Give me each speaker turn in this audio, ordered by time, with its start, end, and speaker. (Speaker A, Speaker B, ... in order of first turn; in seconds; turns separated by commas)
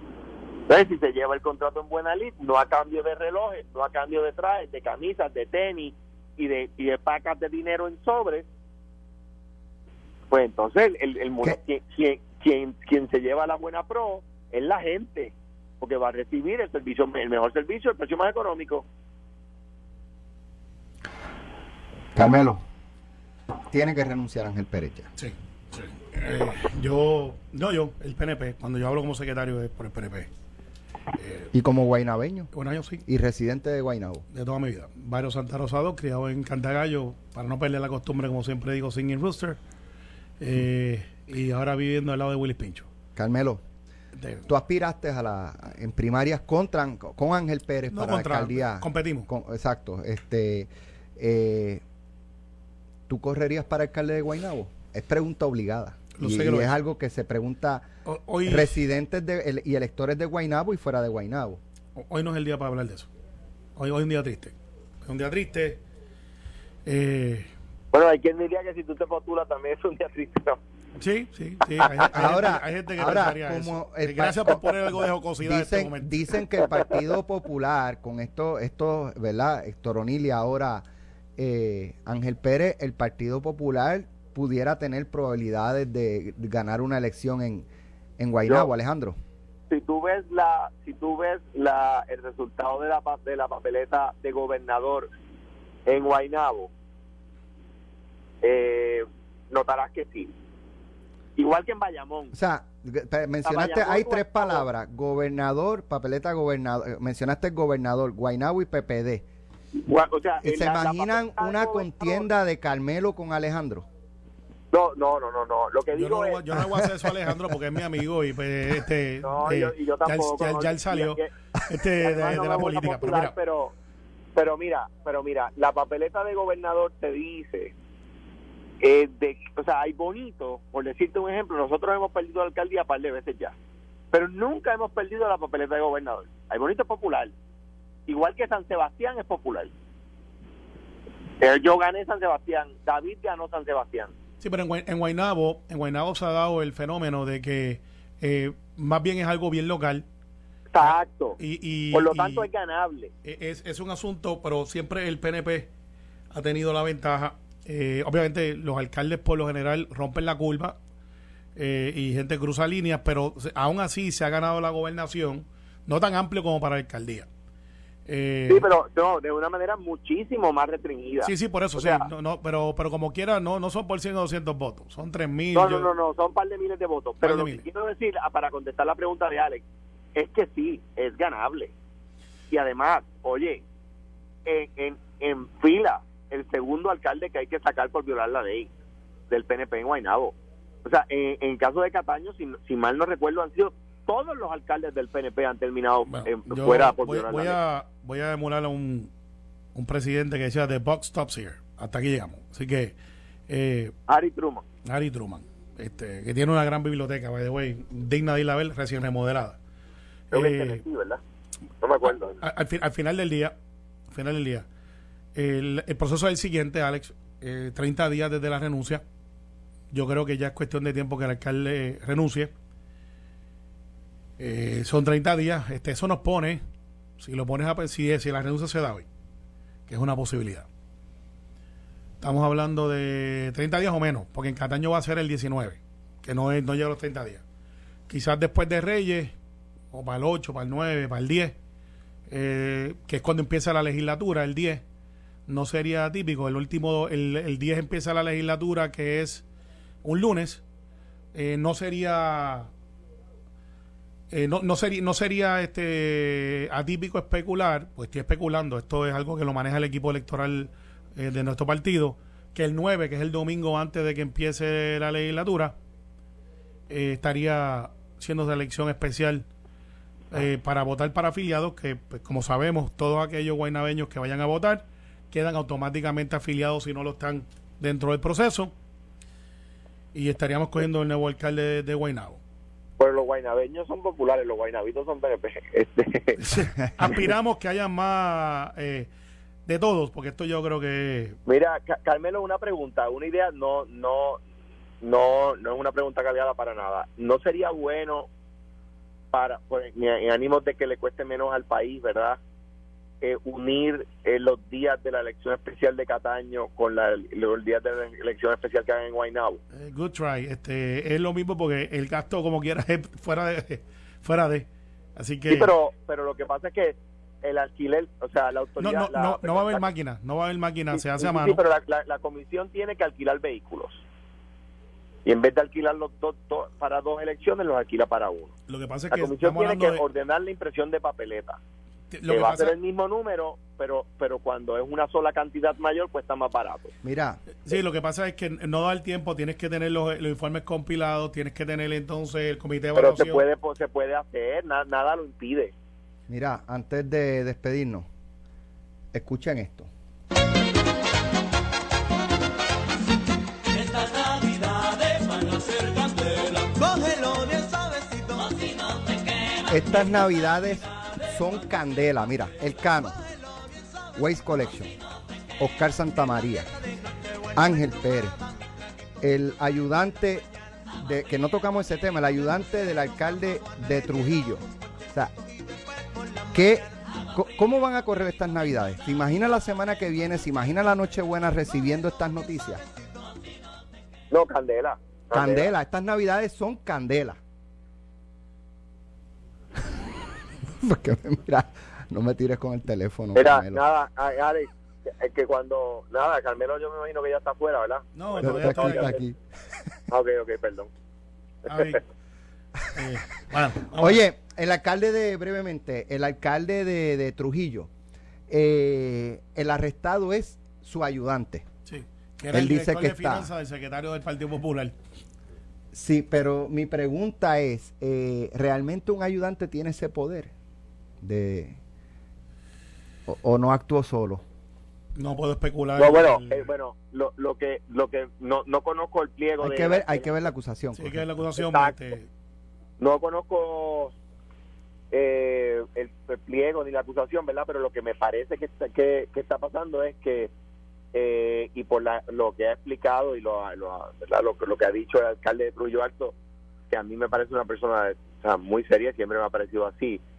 Speaker A: 0.7-8.5, Speaker A: 10.3-18.9, Speaker B: 22.1-22.6, Speaker B: 23.7-25.1, Speaker C: 25.2-30.3, Speaker C: 31.2-31.5, Speaker B: 31.5-32.5, Speaker C: 32.5-33.0, Speaker B: 33.0-34.2, Speaker C: 34.3-39.6, Speaker C: 40.4-42.9, Speaker B: 43.1-43.6, Speaker C: 44.2-44.4, Speaker B: 44.5-51.8, Speaker C: 47.9-49.3, Speaker B: 53.1-57.9, Speaker C: 56.1-56.7, Speaker C: 58.0-58.8, Speaker B: 58.5-61.6, Speaker C: 62.0-63.1, Speaker C: 63.8-65.8, Speaker C: 66.9-67.5, Speaker A: 67.9-70.6, Speaker C: 71.0-76.1, Speaker B: 72.1-74.7, Speaker B: 75.4-80.8, Speaker B: 81.4-87.7, Speaker B: 88.2-89.2, Speaker A: 89.7-95.1, Speaker A: 95.9-96.7, Speaker A: 98.4-100.3, Speaker A: 101.4-102.3, Speaker B: 102.3-109.3, Speaker A: 103.4-104.7, Speaker A: 109.8-112.3, Speaker B: 110.4-113.9, Speaker A: 114.7-116.4, Speaker C: 115.9-123.3, Speaker A: 119.2-121.3, Speaker A: 122.0-123.7, Speaker A: 124.3-127.7, Speaker A: 128.8-133.5, Speaker A: 134.1-137.3, Speaker A: 138.1-139.7, Speaker A: 141.4-144.1, Speaker C: 144.4-150.1, Speaker A: 150.7-151.4, Speaker C: 150.8-152.5, Speaker A: 151.9-153.1, Speaker C: 153.2-155.7, Speaker C: 156.3-160.8, Speaker C: 161.6-167.3, Speaker C: 168.1-168.7, Speaker A: 168.5-172.1, Speaker C: 171.2-175.9, Speaker A: 175.6-179.6, Speaker C: 177.2-177.7, Speaker A: 180.2-181.7, Speaker A: 182.5-183.6, Speaker A: 184.5-188.7, Speaker A: 189.3-197.6, Speaker C: 196.1-199.1, Speaker C: 199.8-202.9, Speaker C: 203.5-203.9, Speaker A: 204.1-204.7, Speaker C: 204.8-209.6, Speaker C: 210.3-210.8, Speaker A: 210.3-211.2, Speaker A: 211.8-212.4, Speaker C: 212.1-213.6, Speaker C: 214.1-214.7, Speaker C: 215.3-219.0, Speaker C: 219.9-222.5, Speaker C: 224.4-226.6, Speaker C: 227.2-229.1, Speaker C: 229.9-230.7, Speaker C: 232.2-237.4, Speaker C: 238.1-239.3, Speaker C: 239.9-241.6, Speaker C: 242.3-244.8, Speaker C: 245.5-249.4, Speaker C: 250.0-250.6, Speaker C: 251.3-252.7, Speaker C: 254.3-265.8, Speaker C: 266.9-269.5, Speaker C: 270.3-278.7, Speaker C: 280.1-282.4, Speaker A: 283.0-286.4, Speaker C: 286.4-289.1, Speaker B: 286.8-287.1, Speaker C: 289.7-291.4, Speaker A: 291.5-294.4, Speaker A: 295.0-298.3, Speaker A: 299.3-302.4, Speaker A: 303.2-309.6, Speaker C: 309.7-315.7, Speaker A: 315.5-319.9, Speaker C: 318.8-321.6, Speaker A: 320.9-324.0, Speaker A: 325.2-328.5, Speaker C: 328.7-330.0, Speaker A: 329.1-331.6, Speaker C: 332.1-332.8, Speaker A: 332.3-336.9, Speaker B: 337.0-337.4, Speaker C: 337.6-343.4, Speaker A: 342.9-345.7, Speaker B: 346.3-348.1, Speaker B: 349.1-349.9, Speaker A: 356.8-357.7, Speaker B: 359.7-363.2, Speaker B: 364.1-364.9, Speaker B: 365.6-366.7, Speaker B: 367.5-368.4, Speaker B: 369.2-370.5, Speaker B: 371.0-375.3, Speaker B: 376.5-382.8, Speaker A: 384.3-385.7, Speaker B: 385.3-387.4, Speaker B: 390.8-393.8, Speaker A: 393.4-399.2, Speaker C: 398.2-399.2, Speaker B: 398.4-399.4, Speaker A: 400.1-400.9, Speaker C: 401.7-402.0, Speaker C: 402.9-404.2, Speaker B: 403.9-407.9, Speaker B: 408.5-411.6, Speaker C: 411.9-414.9, Speaker B: 412.5-413.5, Speaker B: 415.9-420.5, Speaker B: 421.2-421.8, Speaker B: 423.3-424.4, Speaker C: 425.2-426.7, Speaker A: 426.0-430.3, Speaker B: 429.6-431.4, Speaker C: 430.9-432.3, Speaker A: 431.6-431.9, Speaker A: 433.0-434.1, Speaker A: 435.1-440.5, Speaker A: 441.1-446.4, Speaker A: 446.9-450.2